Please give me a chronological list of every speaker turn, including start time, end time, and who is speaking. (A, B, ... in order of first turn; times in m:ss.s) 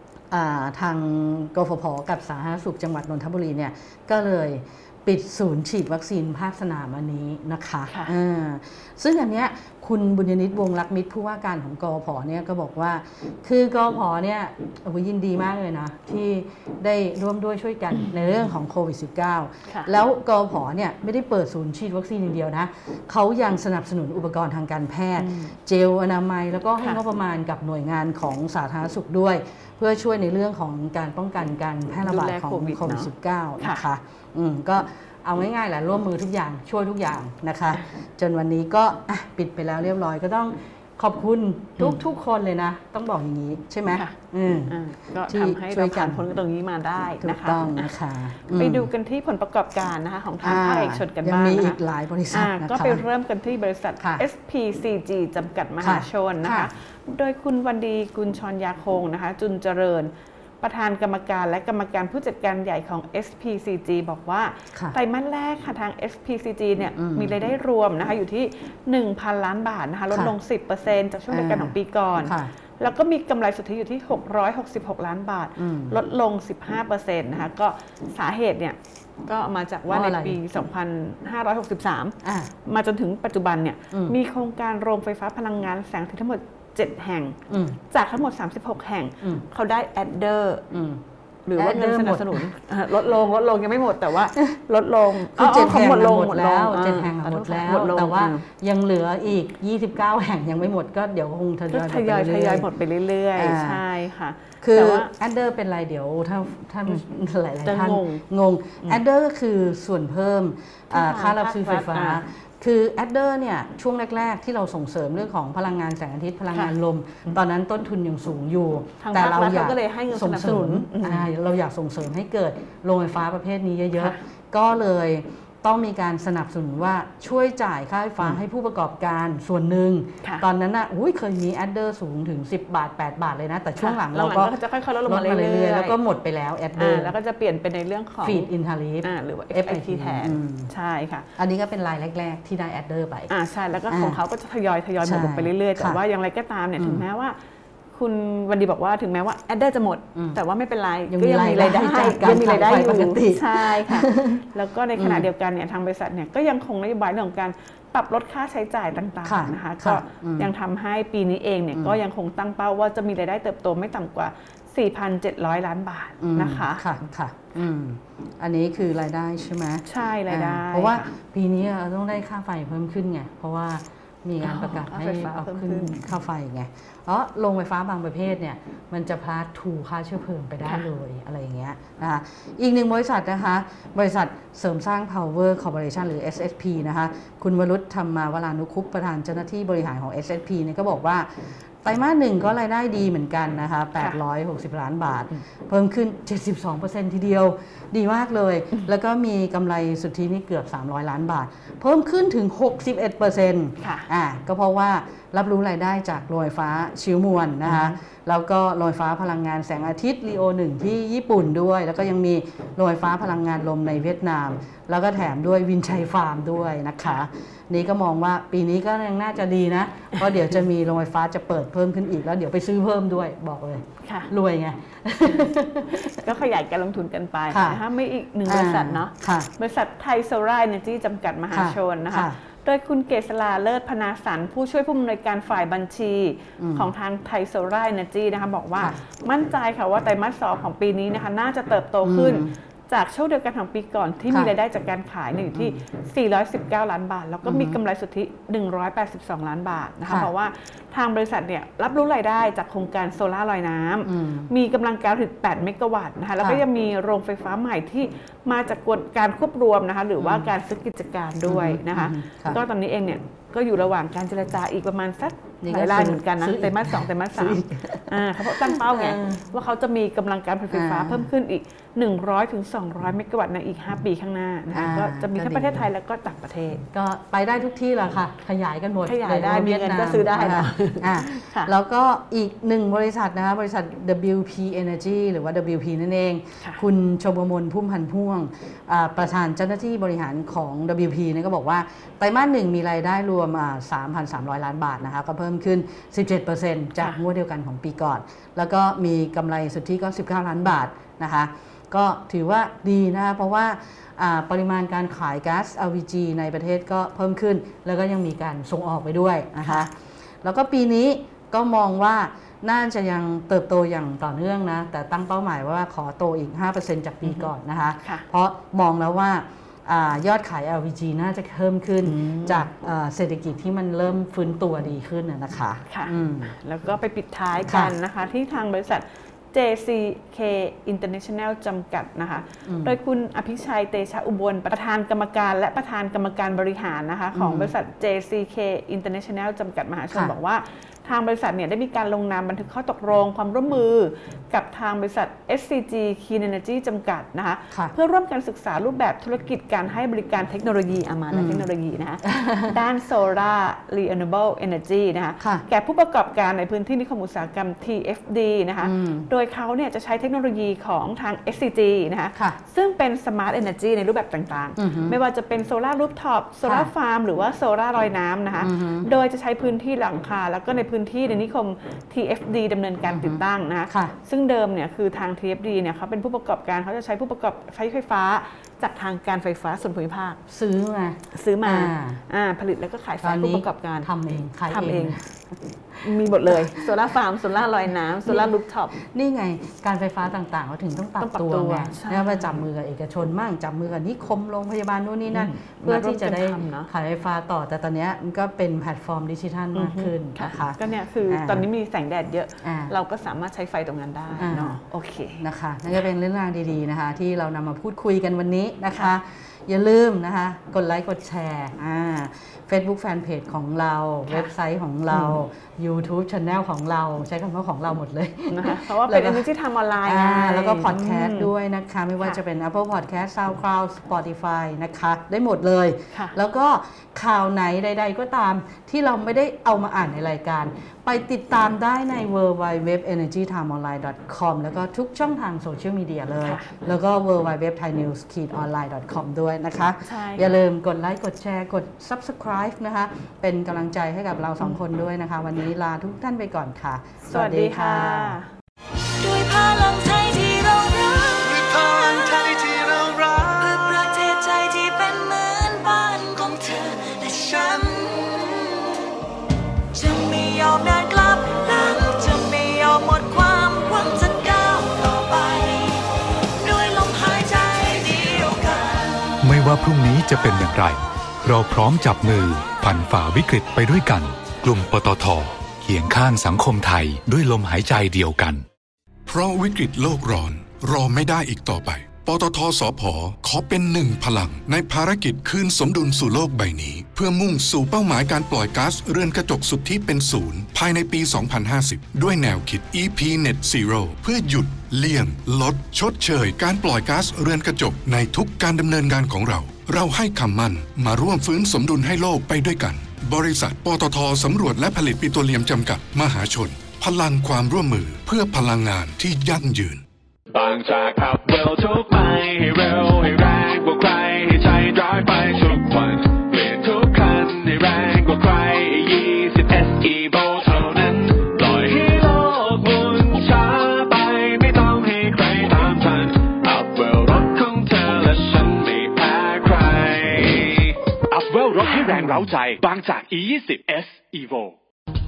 0:00.3-0:44.8 A
0:25.2-0:25.6 B
0:32.0-0:33.8 B
0:44.7-0:47.9 B
0:45.3-0:46.2 A
0:47.2-0:48.9 A
0:48.5-0:51.8 B
0:50.4-0:53.0 A
0:52.3-1:27.4 B
0:54.0-0:54.2 A
0:55.8-0:56.7 A
1:07.0-1:07.3 A
1:11.3-1:12.5 A
1:15.6-1:16.0 A
1:19.9-1:20.4 A
1:22.2-1:22.5 A
1:23.9-1:24.2 A
1:27.5-1:27.8 A
1:27.9-1:30.6 B
1:30.7-1:31.0 A
1:31.4-1:38.4 B
1:31.6-1:32.4 A
1:35.3-1:42.7 A
1:41.7-1:45.1 B
1:43.3-1:43.8 A
1:44.6-2:17.1 A
1:47.6-1:48.2 B
1:50.9-1:52.2 B
1:59.0-2:01.3 B
2:13.8-2:16.0 B
2:16.8-2:18.5 B
2:18.2-2:20.7 A
2:19.0-2:21.2 B
2:21.4-2:23.3 A
2:23.3-2:27.4 B
2:23.9-2:24.2 A
2:25.0-2:26.0 A
2:26.8-2:27.0 A
2:27.9-2:47.0 B
2:31.1-2:34.4 A
2:35.0-2:35.3 A
2:39.2-2:40.5 A
2:41.7-2:42.0 A
2:46.2-3:46.3 A
2:49.8-2:51.1 B
2:54.4-2:56.1 B
3:23.8-3:24.1 B
3:27.6-3:28.0 B
3:44.0-3:44.3 B
3:45.9-4:36.8 B
3:47.5-3:47.8 A
3:48.4-3:49.5 A
3:51.5-3:52.4 A
3:56.6-3:56.9 A
4:02.0-4:02.5 A
4:05.5-4:05.8 A
4:07.4-4:07.8 A
4:14.0-4:14.5 A
4:16.4-4:16.6 A
4:20.2-4:20.5 A
4:21.4-4:22.6 A
4:25.6-4:29.4 A
4:30.7-4:31.3 A
4:34.7-4:35.9 A
4:36.9-5:26.5 A
4:39.0-4:41.7 B
5:17.2-5:17.5 B
5:22.0-5:22.6 B
5:25.9-6:20.4 B
5:27.7-5:27.9 A
5:32.7-5:32.9 A
5:37.3-5:37.7 A
5:51.3-5:51.6 A
5:52.2-5:52.7 A
5:55.4-5:55.6 A
5:58.8-5:59.3 A
6:04.8-6:05.1 A
6:06.6-6:06.9 A
6:08.6-6:09.1 A
6:13.1-6:14.1 A
6:20.5-6:22.2 A
6:21.3-6:24.1 B
6:23.2-6:26.9 A
6:24.7-6:25.2 B
6:26.0-6:29.0 B
6:28.2-6:41.6 A
6:31.2-6:32.6 B
6:35.3-6:36.9 B
6:39.7-6:45.4 B
6:42.6-6:42.9 A
6:44.4-6:44.8 A
6:45.3-6:59.5 A
6:58.5-7:01.5 B
7:00.0-7:28.4 A
7:16.4-7:16.8 B
7:20.0-7:20.6 B
7:27.3-7:28.5 B
7:29.0-7:38.9 C
7:39.9-7:49.4 C
7:49.4-7:58.6 D
7:59.3-8:30.0 E
8:30.5-8:54.7 F